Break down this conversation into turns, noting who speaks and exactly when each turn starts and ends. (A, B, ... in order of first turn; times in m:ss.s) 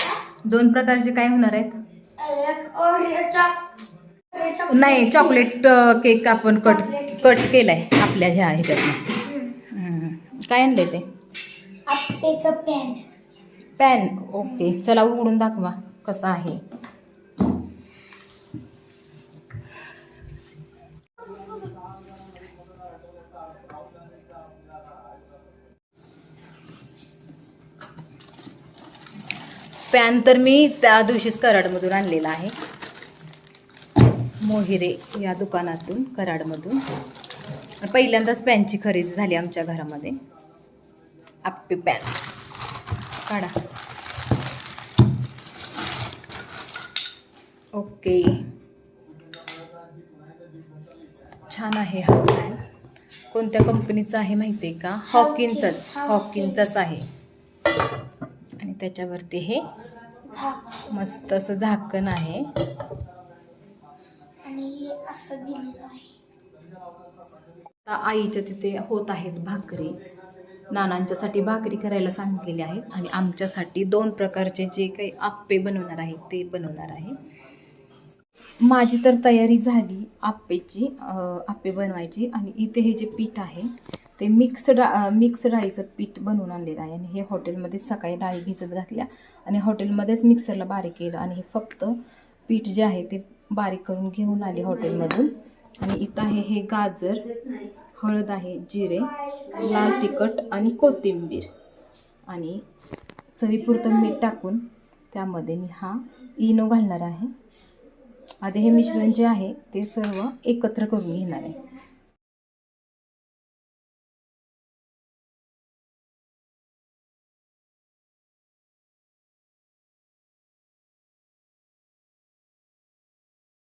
0:00.4-0:01.8 A
0:02.2-0:03.6 B
0:04.3-0:05.3 B
0:04.6-0:11.0 A
0:06.7-0:07.2 B
0:11.8-0:13.0 B
0:13.8-0:16.6 A
0:29.9-0:32.5 A
0:34.2-0:36.8 A
0:37.8-0:40.2 A
0:41.4-0:42.2 A
0:43.2-0:43.6 A
0:47.7-0:48.5 A
0:51.4-0:52.6 A
0:53.3-0:57.1 A
0:55.1-0:56.7 B
0:58.6-0:59.7 A
1:00.3-1:00.8 B
1:00.8-1:02.6 A
1:04.4-1:06.1 B
1:07.8-1:10.0 A
1:10.7-1:17.2 A
1:18.6-1:37.3 A
1:38.0-1:41.5 A
1:39.2-1:40.1 B
1:42.3-1:42.6 A
1:43.3-1:47.3 A
1:48.4-1:51.6 A